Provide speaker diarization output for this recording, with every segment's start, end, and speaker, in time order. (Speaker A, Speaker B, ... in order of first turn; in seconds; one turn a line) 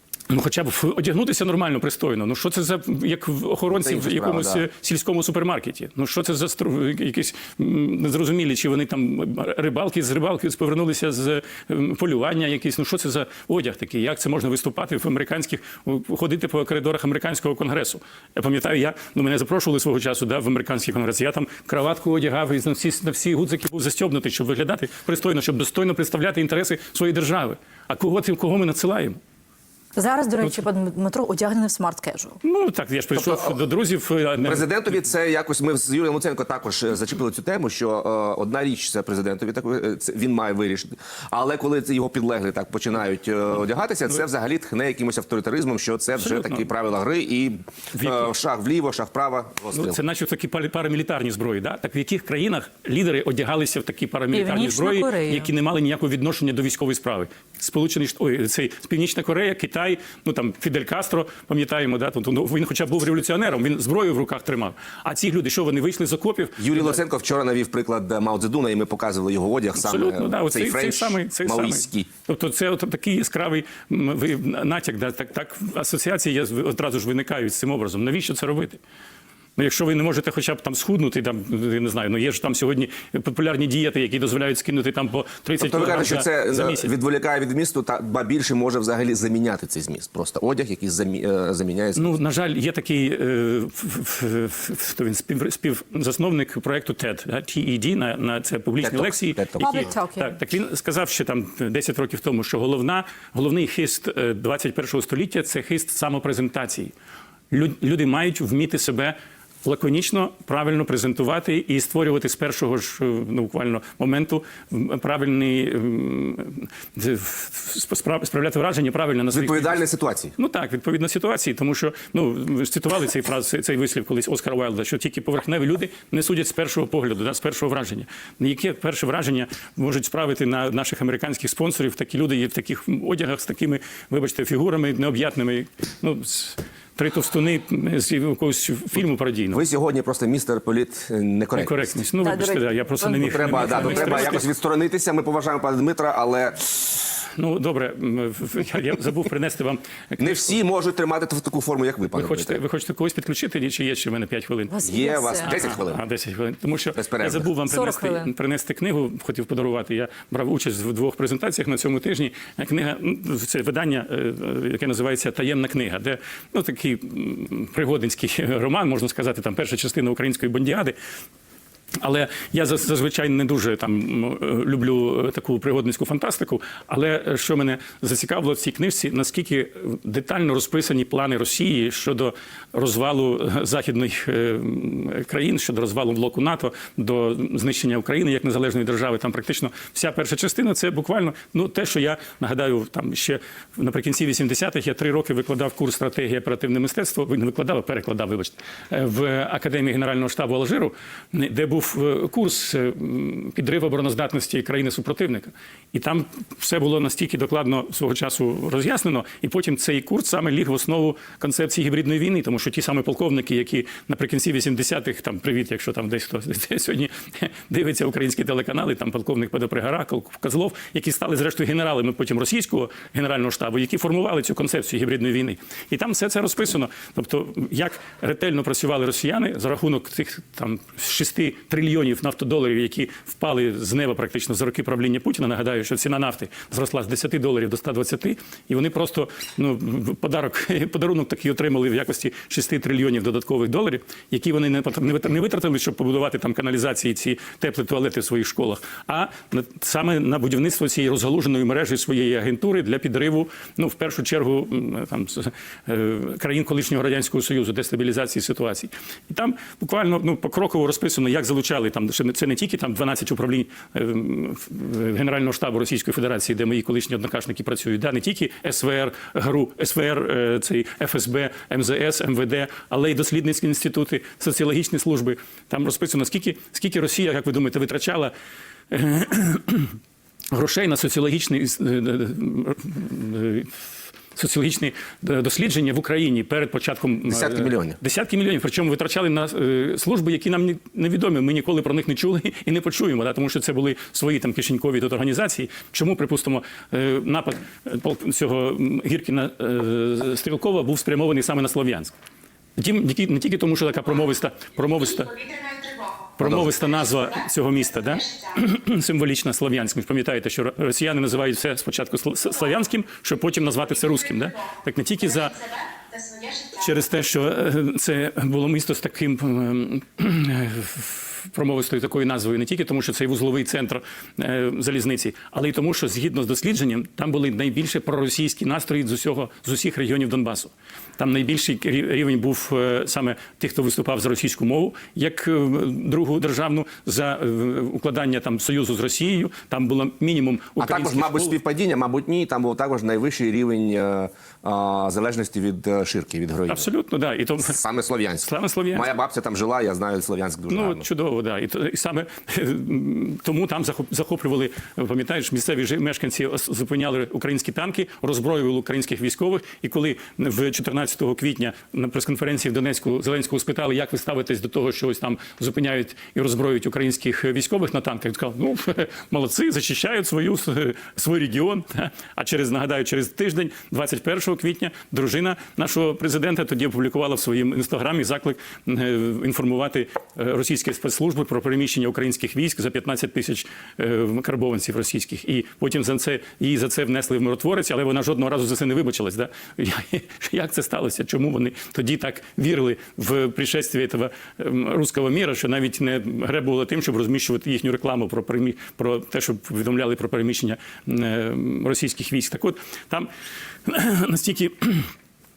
Speaker A: 0.3-29.2
Speaker B: 3.8-4.6
Speaker C: 29.9-32.4
Speaker A: 32.4-34.7
Speaker B: 33.1-33.6
Speaker B: 34.4-50.0
Speaker A: 46.2-46.7
Speaker A: 47.9-48.3
Speaker A: 49.7-67.0
Speaker C: 54.3-55.5
Speaker B: 66.6-72.1
Speaker A: 69.7-78.8
Speaker A: 79.6-86.9
Speaker B: 85.6-92.1
Speaker A: 92.0-106.9
Speaker B: 98.8-99.9
Speaker C: 99.6-100.3
Speaker A: 107.5-119.8
Speaker B: 119.3-120.3
Speaker A: 120.4-139.6
Speaker B: 139.5-141.9
Speaker A: 141.5-144.5
Speaker C: 142.2-144.2
Speaker B: 143.2-146.9
Speaker A: 147.2-150.5
Speaker B: 150.2-152.6
Speaker A: 152.1-154.8
Speaker C: 154.7-155.6
Speaker B: 154.8-156.0
Speaker A: 155.4-170.9
Speaker B: 156.9-157.5
Speaker C: 157.7-158.3
Speaker A: 172.0-278.3
Speaker A: 278.9-280.0
Speaker A: 280.5-302.1
Speaker B: 287.3-288.0
Speaker A: 302.8-315.8
Speaker B: 306.4-306.7
Speaker A: 316.4-341.6
Speaker B: 340.8-346.9
Speaker A: 346.7-347.8
Speaker B: 347.7-351.1
Speaker A: 348.4-349.1
Speaker A: 350.7-403.3
Speaker A: 403.9-405.1